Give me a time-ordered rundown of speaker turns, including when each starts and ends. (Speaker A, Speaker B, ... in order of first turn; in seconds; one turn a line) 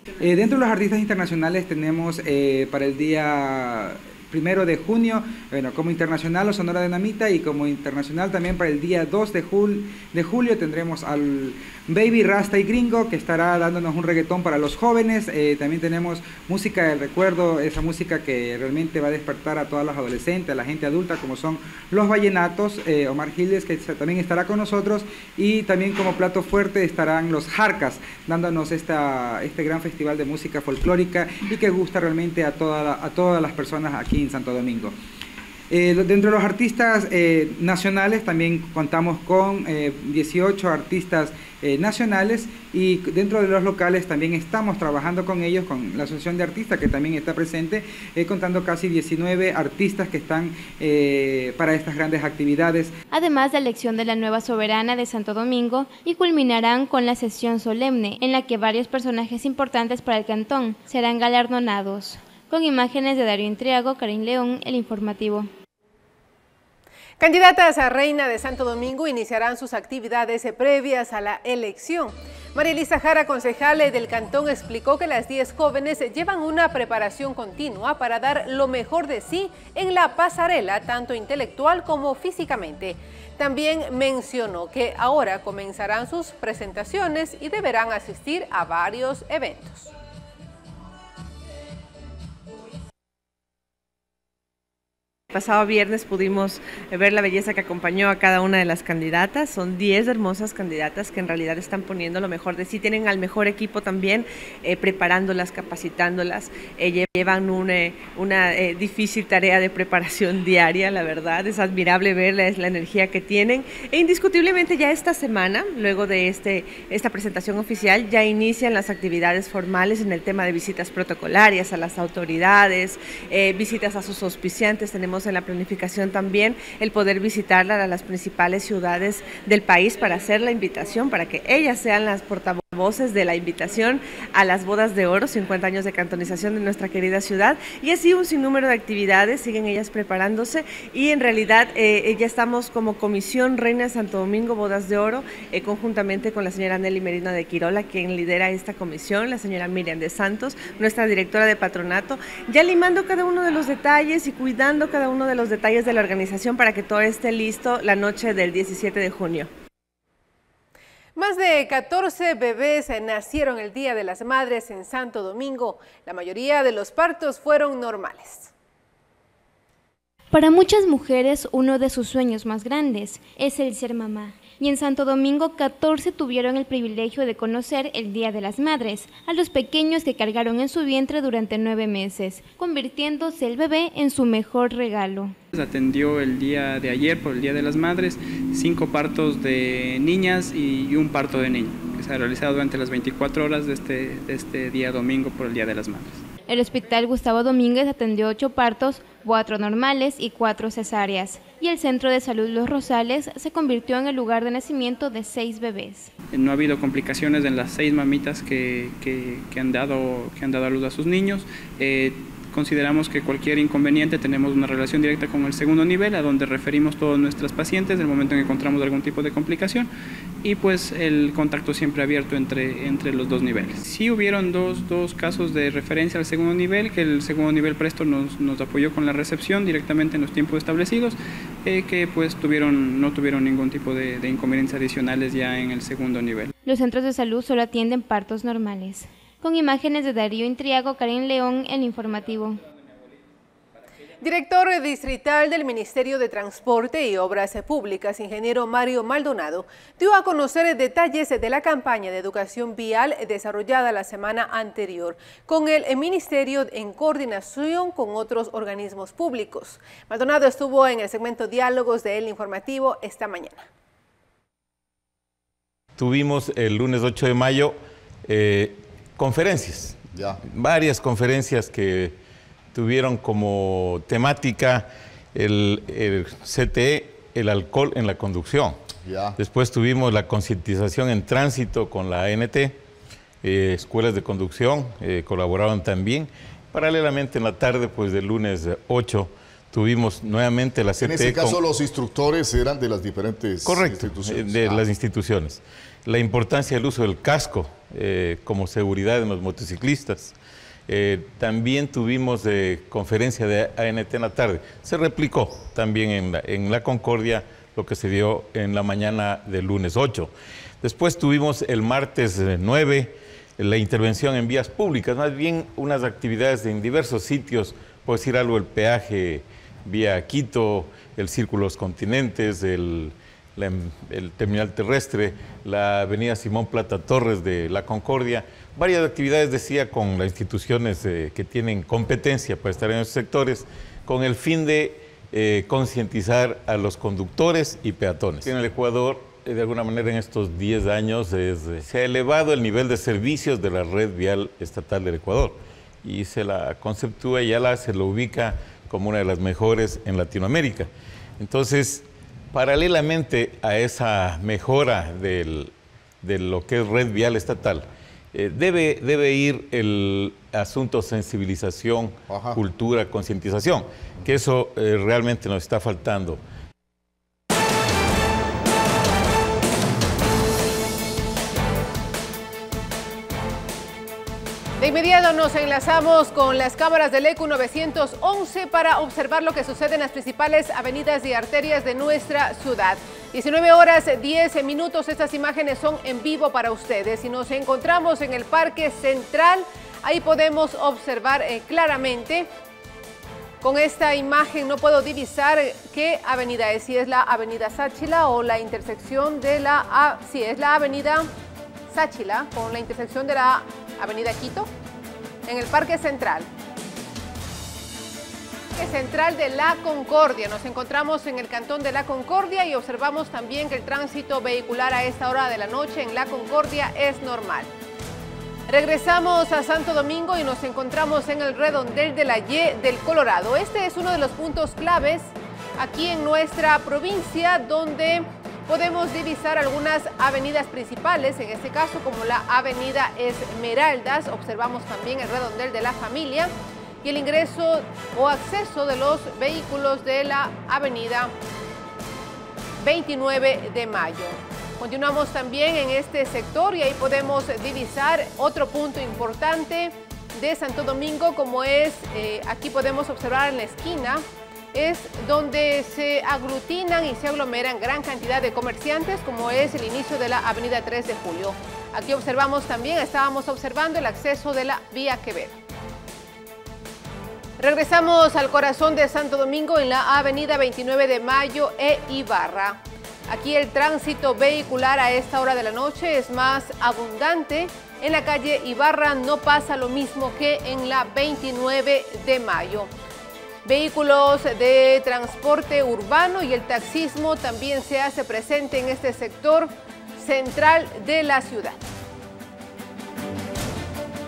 Speaker A: 0.2-34.9
Speaker A: 35.7-52.9
Speaker B: 53.1-65.5
Speaker C: 67.2-89.9
Speaker D: 95.3-159.5
Speaker C: 161.2-168.5
Speaker B: 170.3-185.3
Speaker E: 185.5-196.2
Speaker B: 196.5-206.1
Speaker E: 206.3-219.9
Speaker E: 220.4-236.5
Speaker B: 236.6-242.6
Speaker C: 244.2-263.7
Speaker F: 265.9-272.2
Speaker F: 272.7-278.8
Speaker G: 279.0-279.4
Speaker F: 279.4-282.8
Speaker F: 283.4-291.6
Speaker G: 291.0-294.8
Speaker F: 293.6-300.4
Speaker F: 300.9-366.4
Speaker G: 362.3-362.6
Speaker C: 374.8-392.5
Speaker C: 393.6-401.3
Speaker C: 401.9-404.7
Speaker C: 405.5-406.5
Speaker C: 408.7-417.7
Speaker C: 418.7-436.5
Speaker C: 437.0-441.3
Speaker C: 442.8-454.2
Speaker C: 454.7-465.6
Speaker C: 467.6-482.9
Speaker C: 483.6-491.8